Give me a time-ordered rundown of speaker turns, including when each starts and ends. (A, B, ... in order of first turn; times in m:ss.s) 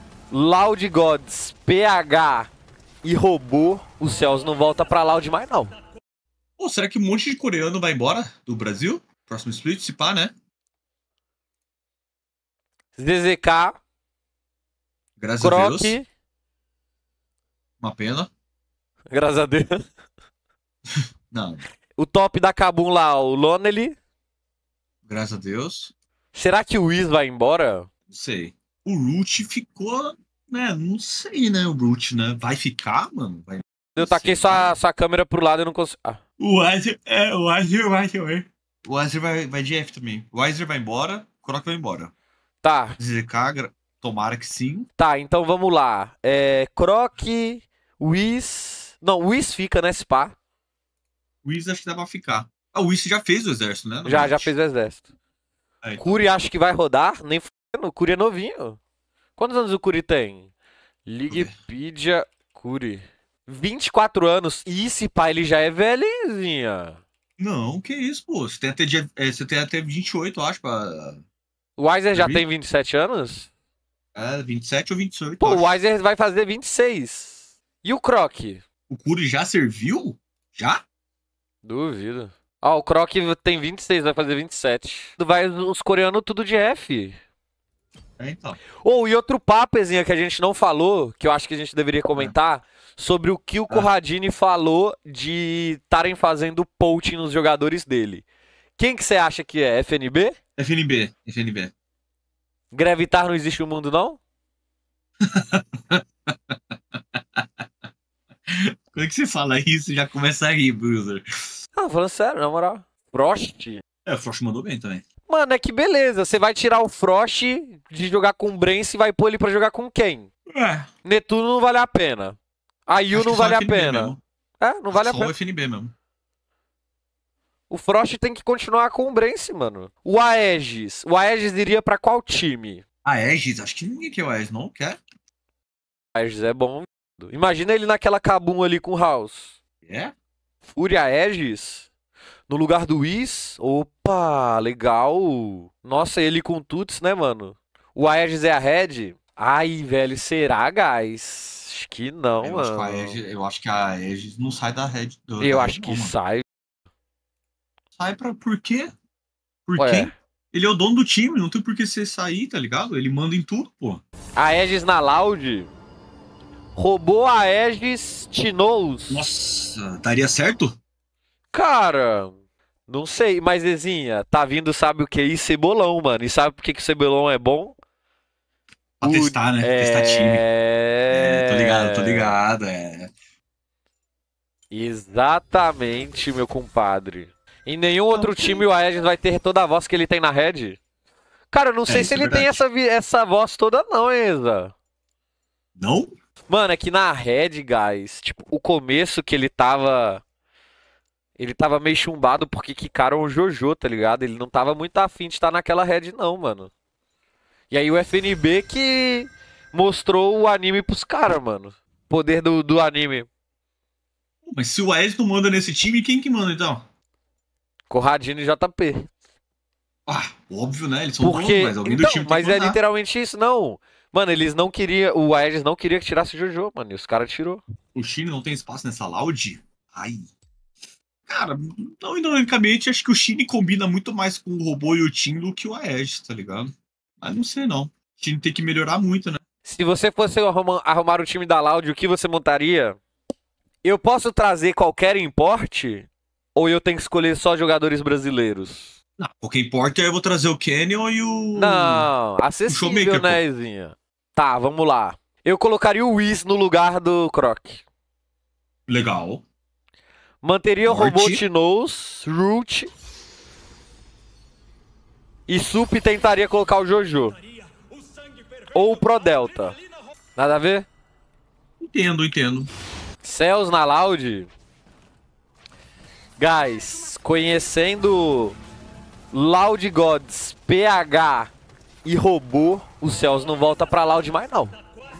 0:00.3-0:02.5 A
0:03.0-0:05.7 A
0:06.6-0:10.3 B
0:13.0-0:13.7 A
0:15.2-0:16.0 B
0:15.4-0:16.1 A
0:17.8-0:18.3 B
0:19.1-0:19.8 A
0:21.3-0:21.6 B
0:22.0-0:23.9 A
0:25.0-0:25.9 B
0:26.3-0:27.9 A
0:28.1-0:34.8 B
0:34.0-0:36.2 A
0:36.4-0:42.1 B
0:42.6-0:43.0 A
0:43.0-0:44.9 B
0:45.0-0:50.4 A
0:51.4-0:54.5 B
0:54.0-0:55.0 A
0:55.8-0:56.2 B
0:56.0-0:58.8 A
0:59.4-1:00.5 A
1:01.0-1:07.0 A
1:01.3-1:01.5 B
1:07.4-1:11.2 B
1:11.8-1:13.5 A
1:12.1-1:12.4 B
1:14.1-1:15.7 B
1:15.4-1:18.6 A
1:18.9-1:20.8 B
1:21.6-1:27.2 A
1:28.2-1:28.6 B
1:28.8-1:38.2 A
1:38.8-1:40.3 A
1:40.6-1:41.7 B
1:42.7-1:44.2 A
1:45.2-1:46.6 B
1:48.5-1:51.2 B
1:51.8-1:53.8 A
1:54.0-1:55.0 B
1:55.3-2:00.3 A
2:00.5-2:00.9 B
2:01.0-2:02.4 A
2:02.9-2:05.3 A
2:03.1-2:04.2 B
2:04.9-2:05.9 B
2:07.7-2:12.8 A
2:13.0-2:15.0 B
2:16.1-2:19.5 A
2:19.8-2:20.1 B
2:20.7-2:21.9 A
2:22.5-2:33.2 A
2:32.4-2:36.1 B
2:35.4-2:36.4 A
2:38.0-2:38.9 B
2:39.7-2:44.0 B
2:39.8-2:40.1 A
2:44.4-2:45.7 A
2:46.8-2:49.2 A
2:49.1-2:50.8 B
2:51.5-2:52.3 A
2:52.9-2:57.8 A
2:59.0-3:00.4 B
2:59.0-3:02.4 A
3:01.1-3:03.1 B
3:04.7-3:10.8 A
3:08.1-3:08.6 B
3:11.5-3:14.7 A
3:11.9-3:12.6 B
3:15.8-3:16.1 B
3:16.5-3:20.2 A
3:21.4-3:26.7 A
3:27.7-3:33.3 A
3:34.4-3:36.9 B
3:37.9-3:39.1 A
3:40.1-3:42.8 B
3:41.2-3:47.6 A
3:47.9-3:50.3 B
3:51.3-3:59.4 B
3:59.6-4:03.0 A
4:03.8-4:08.9 A
4:09.2-4:12.1 B
4:11.5-4:17.8 A
4:12.7-4:13.4 B
4:18.9-4:19.4 B
4:20.4-4:22.9 A
4:20.8-4:21.4 B
4:25.5-4:27.4 A
4:28.7-4:29.8 A
4:30.4-4:30.9 A
4:31.8-4:32.7 B
4:33.2-4:34.5 A
4:36.4-4:38.6 A
4:39.3-4:41.5 A
4:42.0-4:44.7 A